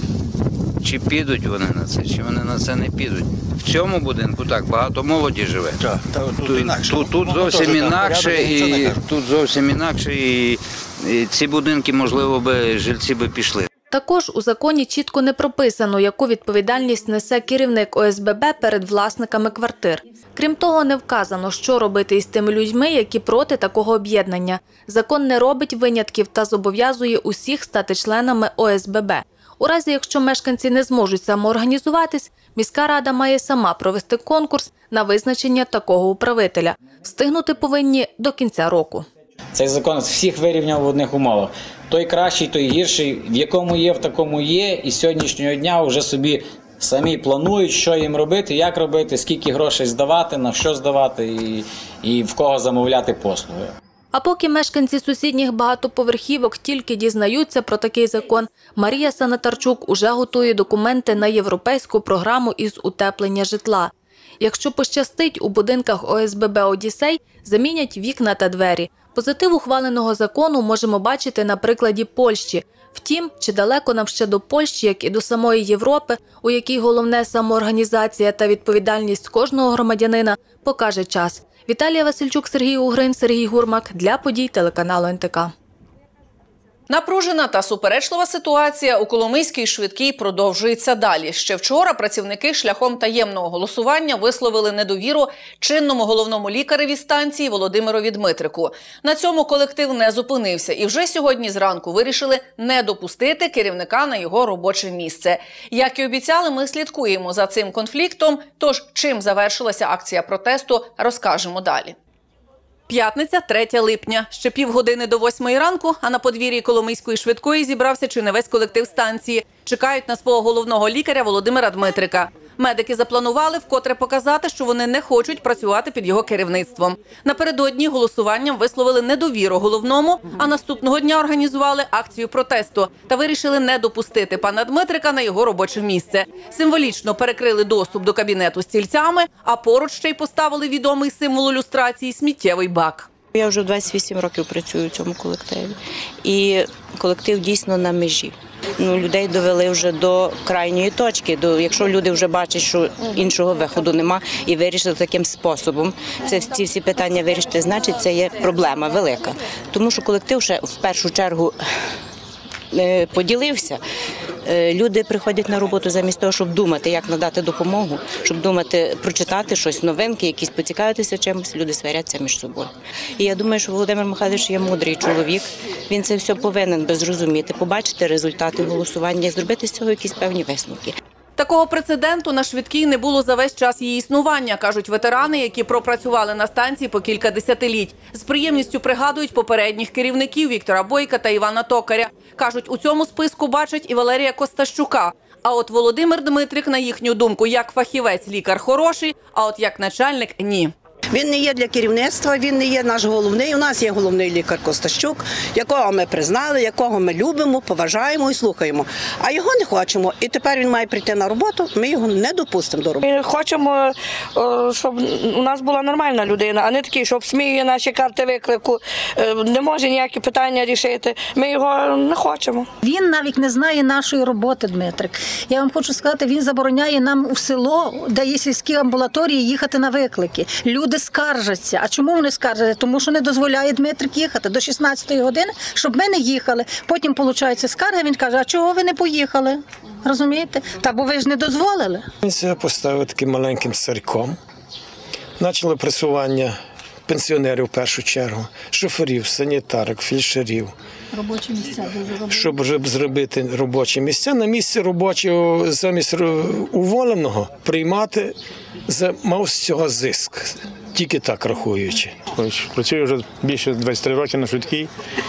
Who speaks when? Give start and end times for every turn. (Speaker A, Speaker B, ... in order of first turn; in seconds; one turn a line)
Speaker A: 0.8-13.7
Speaker B: 13.9-39.1
Speaker C: 39.5-53.8
Speaker B: 54.1-85.5
Speaker D: 86.9-112.0
Speaker D: 112.9-143.1
Speaker E: 143.3-161.6
Speaker E: 162.7-163.8
Speaker E: 164.4-181.0
Speaker D: 181.4-200.7
Speaker F: 201.2-213.0
Speaker G: 213.0-222.7
Speaker H: 222.8-242.1
Speaker I: 242.2-244.4
Speaker I: 245.4-250.7
Speaker H: 251.1-252.5
Speaker I: 252.3-258.4
Speaker I: 258.9-262.2
Speaker J: 262.3-264.9